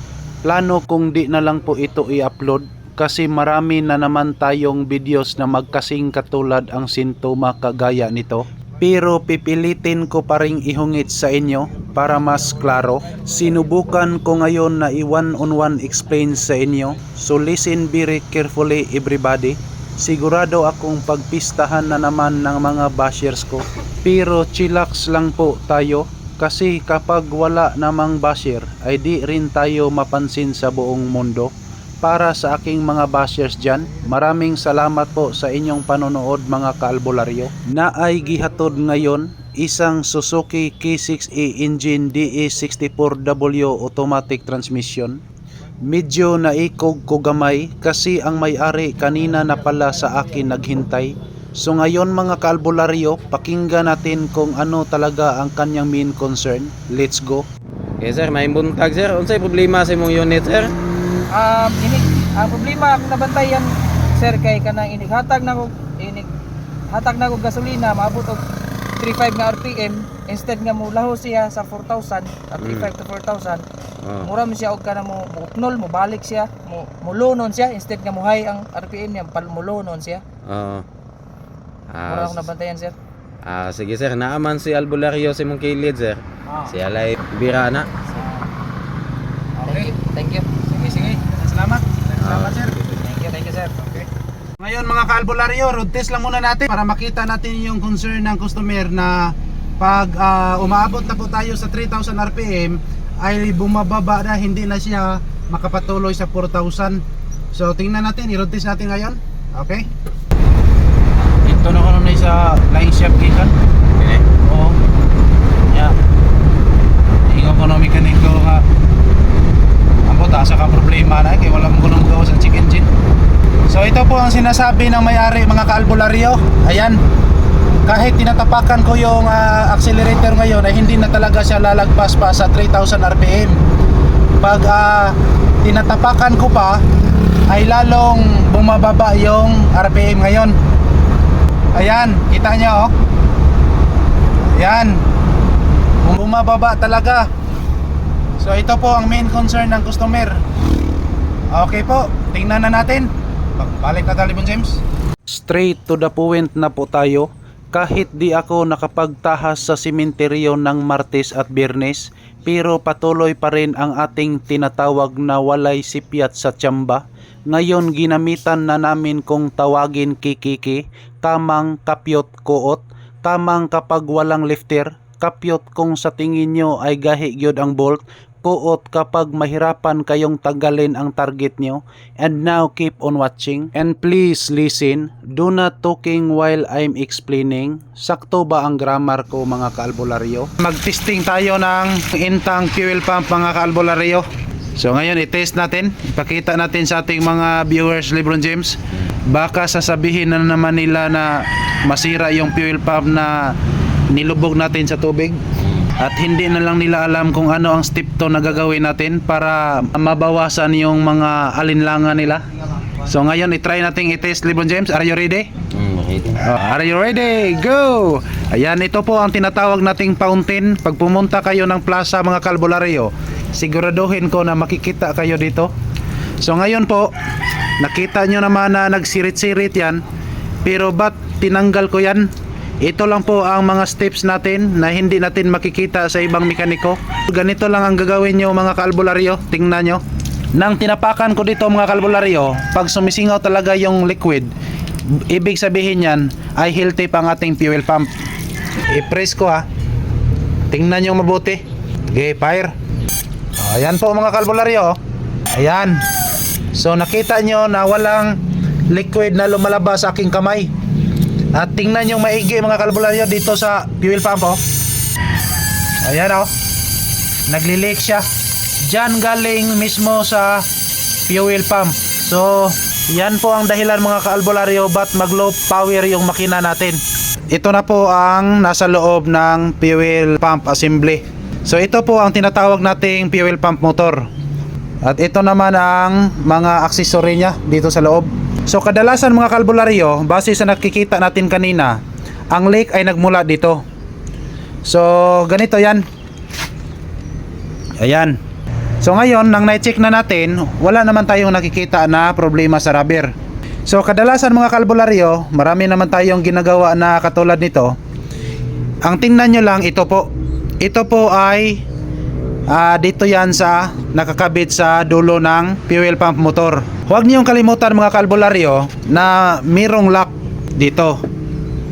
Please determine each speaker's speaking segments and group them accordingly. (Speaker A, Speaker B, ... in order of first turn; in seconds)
Speaker A: 0.4-45.2, 45.8-57.5, 89.6-89.9, 90.7-92.8, 93.6-94.0, 94.6-109.9, 111.4-113.6, 114.4-114.8, 115.7-116.0, 117.3-118.7, 120.1-122.9, 123.7-127.0, 127.8-133.6, 134.4-136.8, 137.5-140.6, 141.8-142.9, 144.5-145.1, 146.0-147.3, 148.4-150.4, 151.5-203.6, 204.1-205.4, 206.0-212.4, 213.0-215.5, 216.4-225.7, 226.4-227.1, 227.8-230.0, 230.6-232.3, 232.8-240.0, 240.6-244.5, 245.1-248.1, 248.9-249.7, 250.7-252.7, 253.6-255.0, 255.5-256.0, 256.7-260.7, 261.5-264.6, 266.0-266.5, 267.5-268.3, 268.9-270.7, 271.3-277.0, 277.5-284.3, 285.0-292.0, 292.5-293.8, 294.9-296.1, 298.0-298.4, 299.0-303.3, 303.9-308.0, 309.0-311.8, 312.7-321.2
Speaker B: 58.0-60.7, 72.6-72.9, 74.0-74.3, 80.5-80.8, 81.9-82.5, 83.4-87.9, 92.2-93.1, 114.0-114.3, 205.6-205.9, 215.7-216.4
Speaker C: 61.3-66.3, 66.9-68.4, 69.0-73.7, 74.2-80.2, 82.1-83.0, 89.7-90.7, 93.1-93.7